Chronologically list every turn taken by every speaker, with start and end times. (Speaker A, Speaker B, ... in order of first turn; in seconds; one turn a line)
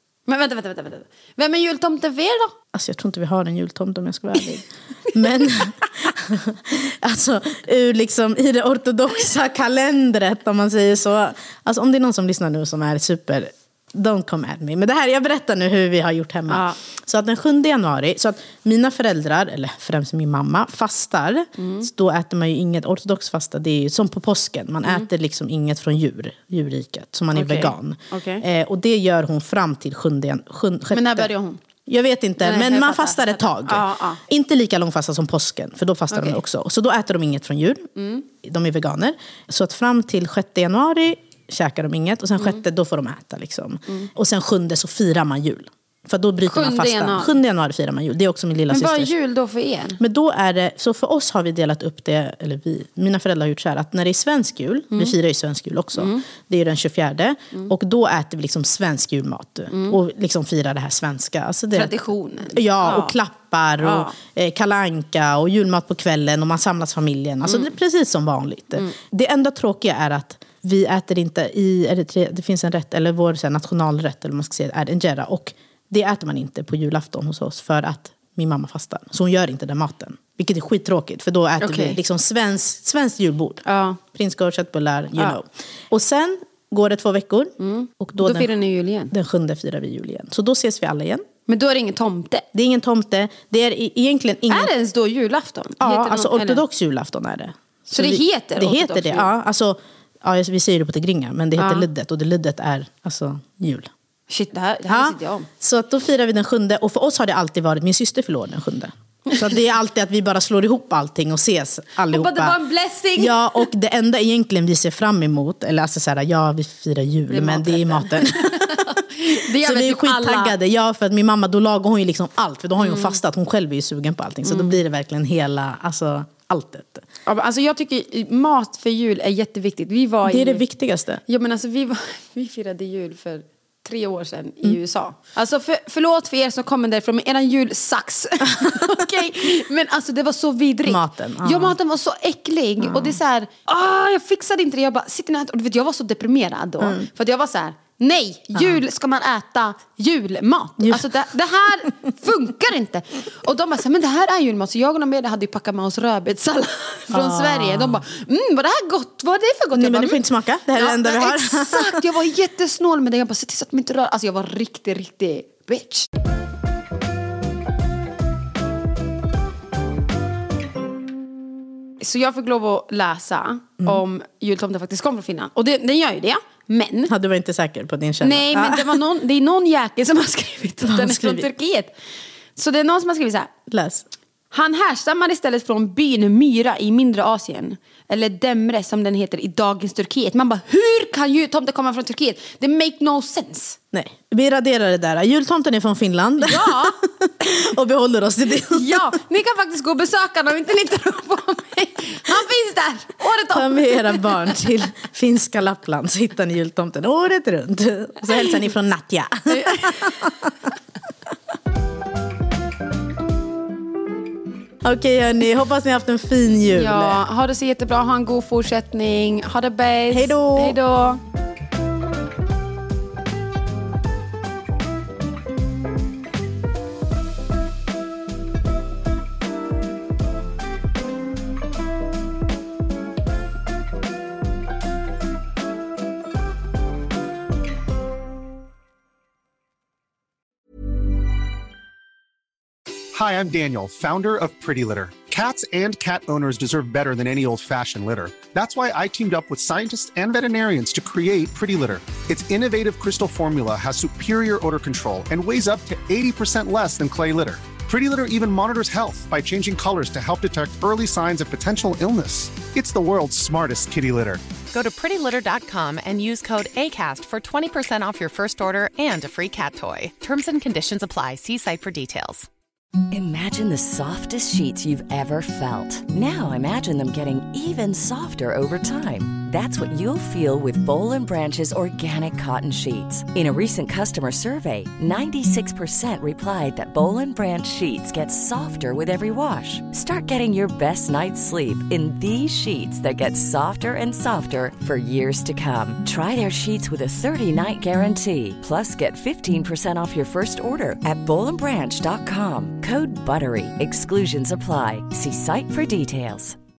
Speaker A: 0.2-2.5
Speaker B: 2.7-31.3
Speaker A: 16.5-16.8
Speaker A: 21.6-21.9
Speaker A: 27.3-28.4
Speaker A: 30.9-31.6
Speaker B: 31.9-49.1
Speaker A: 32.4-34.2
Speaker A: 36.1-36.4
Speaker A: 37.9-38.2
Speaker A: 46.5-47.4
Speaker A: 48.7-50.0
Speaker B: 50.0-61.9
Speaker A: 56.0-56.3
Speaker A: 59.7-60.0
Speaker A: 61.8-63.2
Speaker B: 62.5-88.5
Speaker A: 63.8-64.1
Speaker A: 81.6-82.0
Speaker A: 83.6-84.0
Speaker A: 87.6-89.1
Speaker B: 89.1-91.2
Speaker A: 91.5-92.5
Speaker B: 92.5-94.7
Speaker A: 94.5-96.6
Speaker B: 95.8-103.9
Speaker A: 97.9-99.3
Speaker A: 101.6-101.9
Speaker A: 104.3-105.5
Speaker B: 104.9-112.6
Speaker A: 112.1-113.7
Speaker B: 113.1-127.0
Speaker A: 117.3-120.5
Speaker A: 122.8-123.2
Speaker A: 124.4-124.8
Speaker A: 127.2-130.6
Speaker B: 130.2-131.2
Speaker A: 131.2-160.2
Speaker B: 140.8-141.8
Speaker B: 142.8-143.2
Speaker B: 146.8-147.1
Speaker B: 150.8-151.1
Speaker B: 157.1-158.0
Speaker B: 159.7-162.1
Speaker A: 160.7-166.1
Speaker A: 172.0-177.1
Speaker B: 177.1-179.0
Speaker A: 178.2-181.9
Speaker B: 180.8-181.5
Speaker A: 182.6-183.5
Speaker B: 183.7-184.1
Speaker A: 184.5-193.8
Speaker B: 193.9-199.1
Speaker A: 196.4-197.5
Speaker A: 198.7-204.6
Speaker B: 203.5-210.3
Speaker A: 209.5-210.3
Speaker B: 214.8-217.2
Speaker A: 216.8-221.2
Speaker B: 220.1-220.8
Speaker C: 243.1-264.4
Speaker D: 264.7-272.5
Speaker E: 273.1-306.6